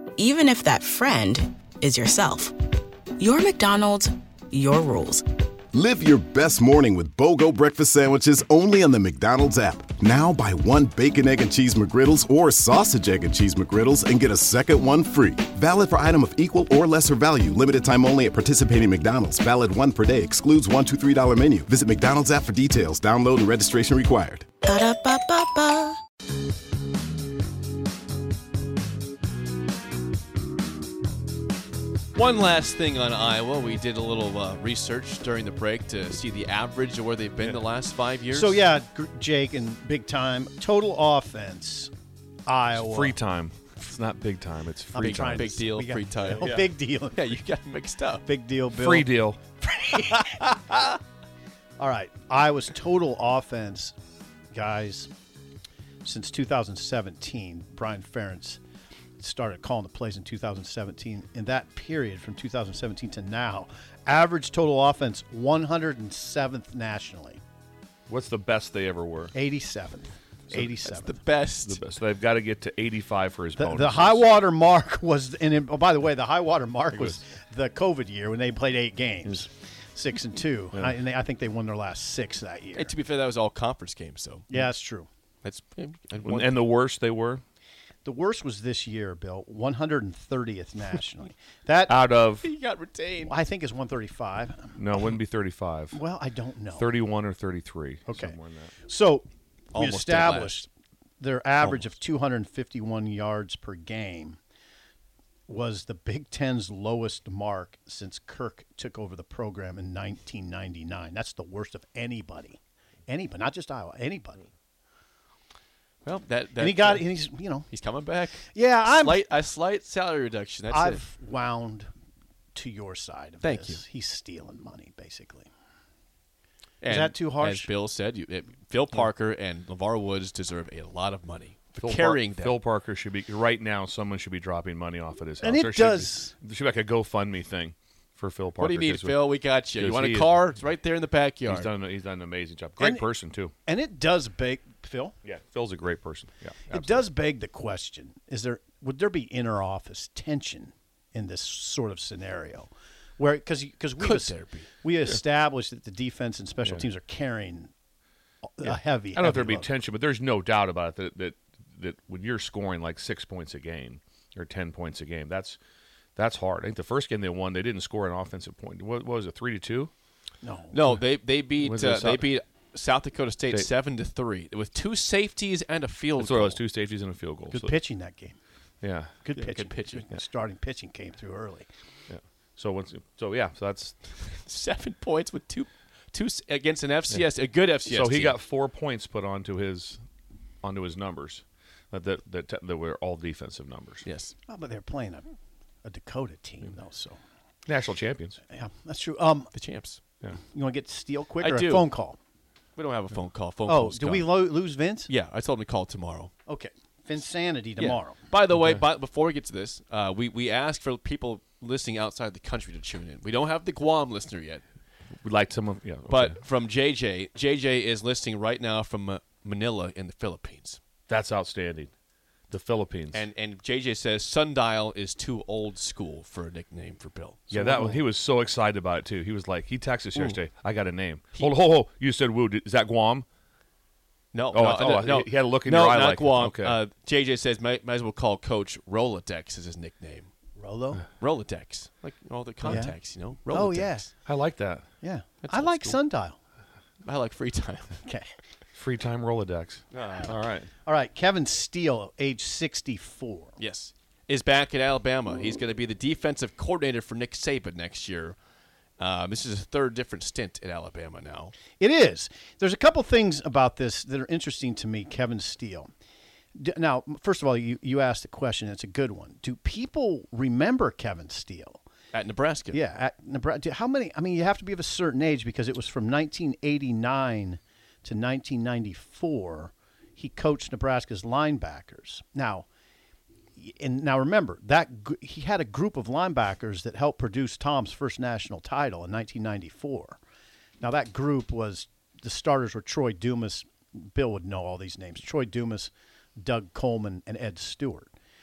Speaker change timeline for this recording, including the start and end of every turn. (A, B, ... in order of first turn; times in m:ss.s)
0:00.2-0:02.5 A
0:03.2-0:05.2 A
0:05.7-0:24.5 B
0:24.6-0:26.0 A
0:32.1-0:38.6 C
0:38.3-0:41.9 D
0:42.4-0:43.2 D
0:42.7-0:45.5 E
0:44.9-0:47.3 D
0:45.0-0:48.2 C
0:46.4-0:46.7 E
0:48.2-0:49.1 D
0:48.8-0:49.4 E
0:49.7-0:51.0 D
0:51.8-0:53.9 D
0:54.5-0:55.1 D
0:56.0-0:58.6 D
0:59.2-1:07.4 D
1:08.1-1:09.3 E
1:09.3-1:11.2 D
1:10.6-1:11.8 C
1:11.6-1:14.2 E
1:13.6-1:22.9 D
1:16.9-1:17.2 E
1:22.7-1:24.5 C
1:24.5-1:25.1 D
1:25.4-1:26.6 C
1:26.2-1:27.4 E
1:28.0-1:32.0 D
1:31.9-1:32.5 E
1:32.4-1:33.3 C
1:33.2-1:34.8 D
1:34.7-1:36.0 E
1:35.9-1:36.9 D
1:36.7-1:38.7 E
1:38.1-1:40.6 D
1:39.7-1:40.6 C
1:41.2-1:44.4 D
1:41.6-1:41.9 C
1:45.5-1:54.4 D
1:56.0-2:01.0 C
1:56.6-1:57.7 D
1:58.5-1:59.2 D
2:00.7-2:01.9 D
2:02.5-2:05.5 D
2:03.4-2:03.8 C
2:06.8-2:12.6 C
2:06.9-2:07.7 D
2:11.8-2:19.2 E
2:15.4-2:16.3 D
2:18.6-2:21.7 C
2:19.7-2:20.4 E
2:21.4-2:23.5 E
2:22.8-2:23.1 D
2:23.6-2:25.2 D
2:25.2-2:27.1 E
2:26.7-2:37.7 D
2:34.0-2:34.7 C
2:38.4-2:39.7 D
2:38.6-2:45.6 E
2:46.2-2:49.9 E
2:50.4-2:50.8 D
2:50.7-2:56.6 C
2:51.6-2:52.3 E
2:56.2-2:57.8 E
2:57.5-2:58.4 D
2:58.8-2:59.1 E
2:59.2-3:01.7 D
2:59.3-3:00.0 C
3:02.1-3:04.0 E
3:04.2-3:08.4 C
3:07.8-3:10.0 E
3:10.6-3:14.0 E
3:14.0-3:14.3 C
3:14.5-3:15.3 D
3:15.8-3:17.2 D
3:17.7-3:18.4 E
3:18.5-3:19.5 D
3:19.5-3:20.0 C
3:20.3-3:22.2 D
3:21.4-3:21.9 C
3:22.8-3:24.5 C
3:23.6-3:25.1 D
3:25.1-3:26.3 C
3:26.4-3:28.2 D
3:27.8-3:34.6 C
3:35.2-3:36.4 E
3:36.1-3:40.8 C
3:41.1-3:41.9 E
3:42.5-3:43.2 E
3:43.1-3:48.0 C
3:47.5-3:53.2 E
3:54.3-4:00.3 C
3:54.5-3:56.8 E
4:00.6-4:01.0 D
4:01.2-4:04.0 C
4:02.6-4:03.0 D
4:03.5-4:04.1 D
4:04.2-4:04.8 E
4:05.0-4:06.4 D
4:05.4-4:06.0 C
4:07.0-4:08.0 C
4:08.0-4:08.3 D
4:08.7-4:10.7 E
4:09.9-4:10.3 C
4:10.8-4:13.6 D
4:13.6-4:18.4 C
4:19.0-4:21.5 C
4:21.8-4:25.9 D
4:26.5-4:31.8 D
4:32.1-4:32.8 C
4:32.7-4:42.7 D
4:43.6-4:50.2 D
4:50.8-4:58.1 D